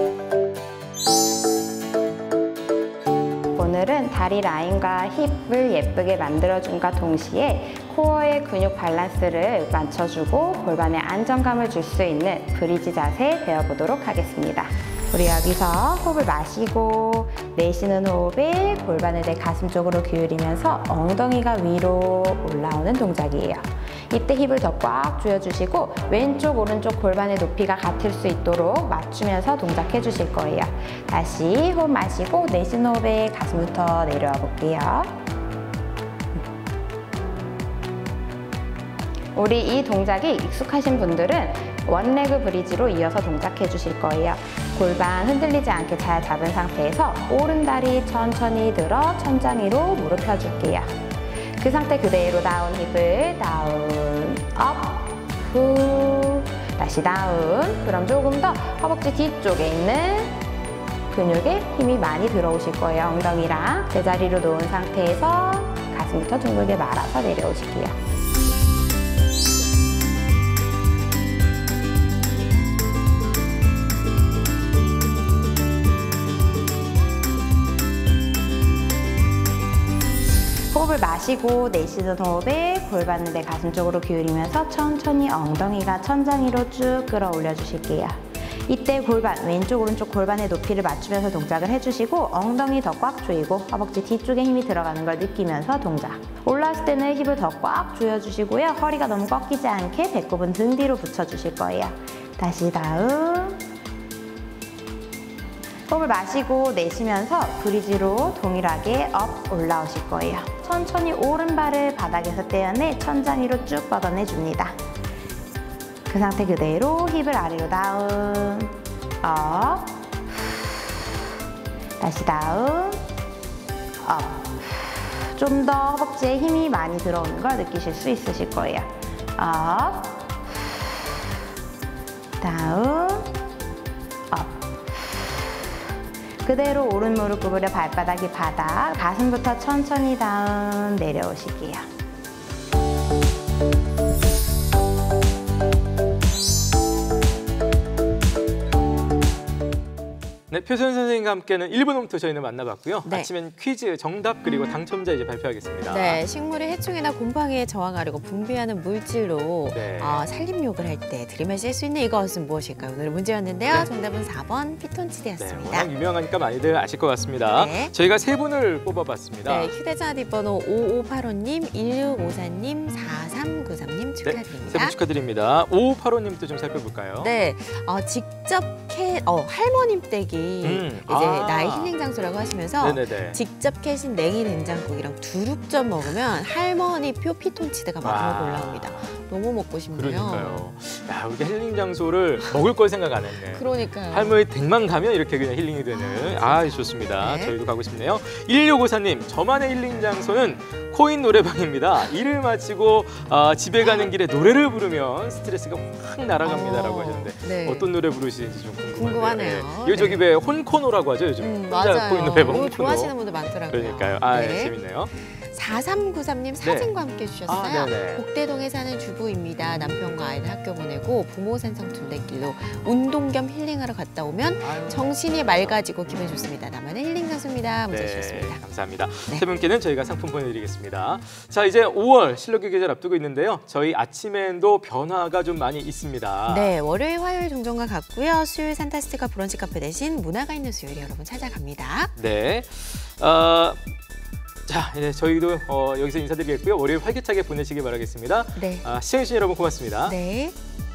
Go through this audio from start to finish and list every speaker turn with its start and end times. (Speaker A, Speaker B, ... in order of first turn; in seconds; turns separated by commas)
Speaker A: 3.5-35.1, Speaker A: 39.3-50.9, Speaker A: 51.6-60.4, Speaker A: 61.1-67.9, Speaker A: 80.7-103.6, Speaker A: 105.9-114.8, Speaker A: 116.1-120.7, Speaker A: 122.0-123.0, Speaker A: 124.0-130.8, Speaker A: 132.4-133.3, Speaker A: 134.3-135.6, Speaker A: 136.4-141.9, Speaker B: 150.5-156.2, Speaker C: 153.0-153.3, Speaker C: 155.8-165.9, Speaker B: 159.7-160.3, Speaker B: 163.7-163.9, Speaker B: 165.4-169.7, Speaker C: 167.5-167.9, Speaker C: 169.4-175.0, Speaker B: 174.2-177.3, Speaker C: 177.2-190.7, Speaker B: 180.6-181.9, Speaker B: 182.8-183.4, Speaker B: 188.0-189.1, Speaker B: 189.9-213.2, Speaker C: 193.5-194.4, Speaker C: 195.9-197.6, Speaker C: 203.8-204.1, Speaker C: 206.4-207.9, Speaker C: 208.9-210.2, Speaker C: 211.4-228.7, Speaker B: 213.7-215.1, Speaker B: 216.6-216.9, Speaker B: 217.4-218.2, Speaker B: 219.7-220.2, Speaker B: 224.6-226.4, Speaker B: 227.9-236.7, Speaker C: 236.5-242.1, Speaker B: 242.2-243.9, Speaker B: 244.7-250.2, Speaker C: 248.5-248.9, Speaker C: 250.0-250.5